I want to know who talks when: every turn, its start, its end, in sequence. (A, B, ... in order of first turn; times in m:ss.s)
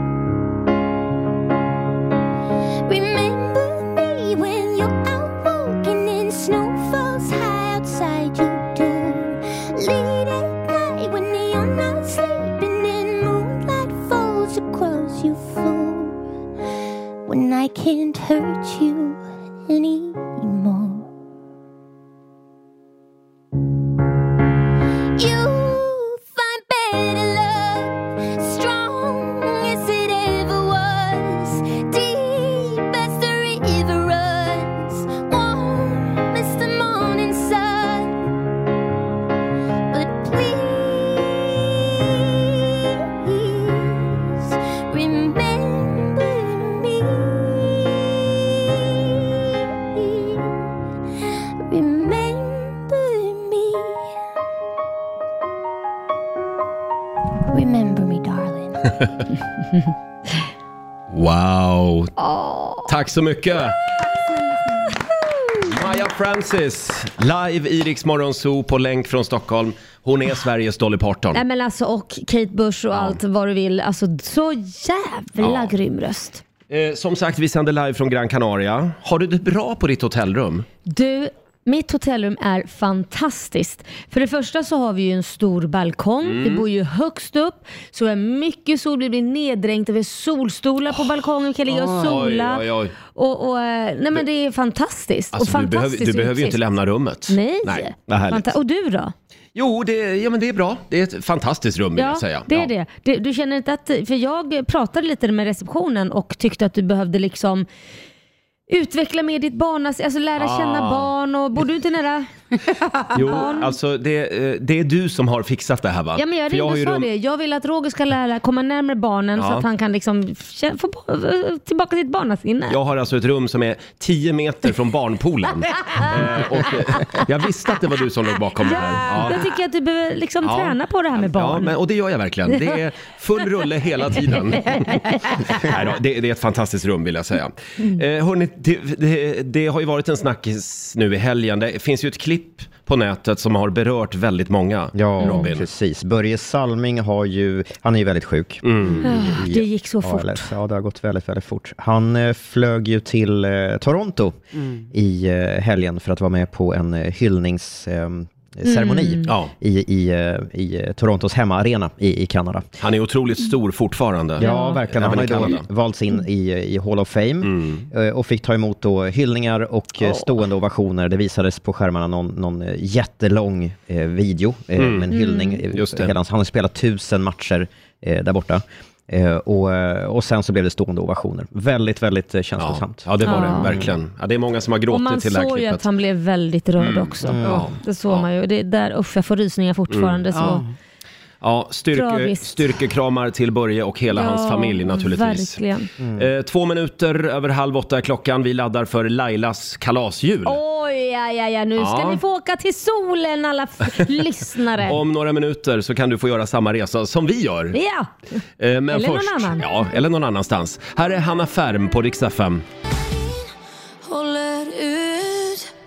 0:02.8-0:16.2 A
0:17.2-0:21.1 A
0:25.2-0:38.2 A
0:39.9-0:41.6 A
0:43.2-0:48.0 A
0:49.9-0:50.6 A
0:51.6-0:54.1 A
0:57.5-0:58.9 A
1:01.1-1:02.1 B
1:02.2-1:02.9 C
1:02.8-1:03.8 B
1:05.6-1:11.4 B
1:11.3-1:16.4 C
1:12.9-1:13.2 B
1:15.4-1:15.7 B
1:16.7-1:20.6 B
1:20.8-1:36.6 C
1:26.2-1:26.6 B
1:31.7-1:32.9 B
1:35.3-1:38.5 B
1:37.3-1:39.1 C
1:39.5-1:42.7 B
1:42.0-1:47.6 C
1:48.7-1:52.3 C
1:50.4-1:51.1 B
1:53.1-1:57.1 B
1:53.1-1:53.7 C
1:56.2-2:02.8 C
1:59.4-1:59.6 B
2:02.7-2:09.4 B
2:08.6-2:11.7 C
2:10.4-2:25.6 B
2:14.6-2:15.3 C
2:24.9-2:34.4 D
2:25.2-2:25.5 C
2:28.6-2:29.1 B
2:29.0-2:30.5 C
2:34.9-2:42.7 D
2:38.6-2:39.3 C
2:39.3-2:39.5 B
2:42.8-2:45.6 B
2:44.4-3:03.9 D
2:44.4-2:44.8 C
2:47.4-2:47.8 B
2:54.8-2:55.1 B
2:55.1-2:55.6 C
2:55.7-2:56.1 B
3:02.6-3:05.8 B
3:03.2-3:03.7 C
3:04.9-3:10.6 C
3:06.8-3:08.2 B
3:07.2-3:07.7 D
3:09.9-3:10.2 B
3:11.4-3:15.6 B
3:11.9-3:12.6 C
3:14.1-3:15.9 C
3:16.0-3:16.3 D
3:16.2-3:20.6 B
3:20.4-3:25.0 C
3:21.8-3:22.2 B
3:24.8-3:27.8 B
3:27.7-3:28.1 C
3:28.6-3:32.6 B
3:28.9-3:29.6 C